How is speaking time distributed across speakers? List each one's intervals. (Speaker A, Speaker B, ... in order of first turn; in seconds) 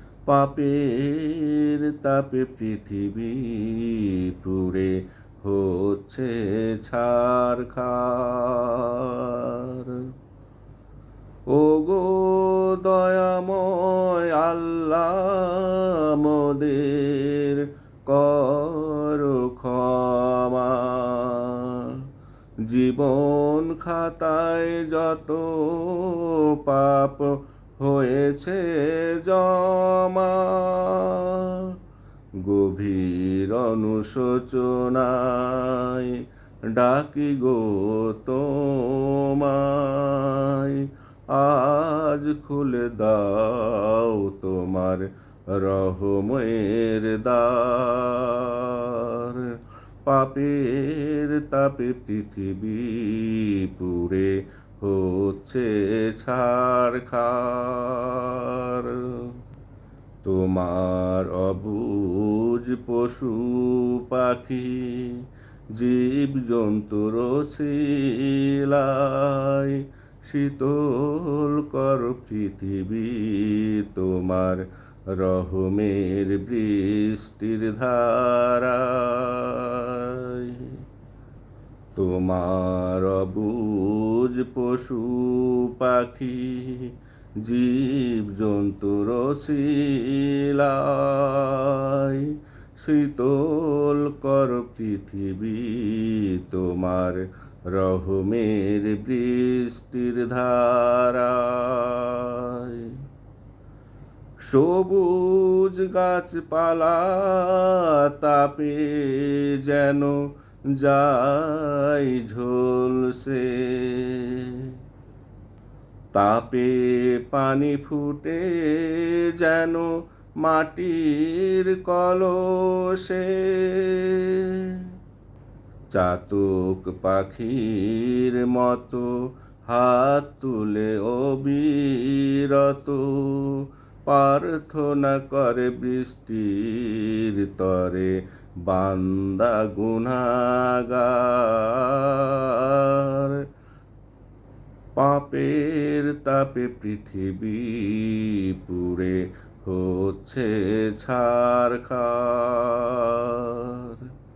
Speaker A: 0.3-10.1, 11.5-22.0, 22.6-31.7, 32.4-59.3, 60.2-65.2, 65.7-80.8, 81.9-103.0, 104.4-114.7, 116.1-124.8, 125.9-143.4, 144.9-154.1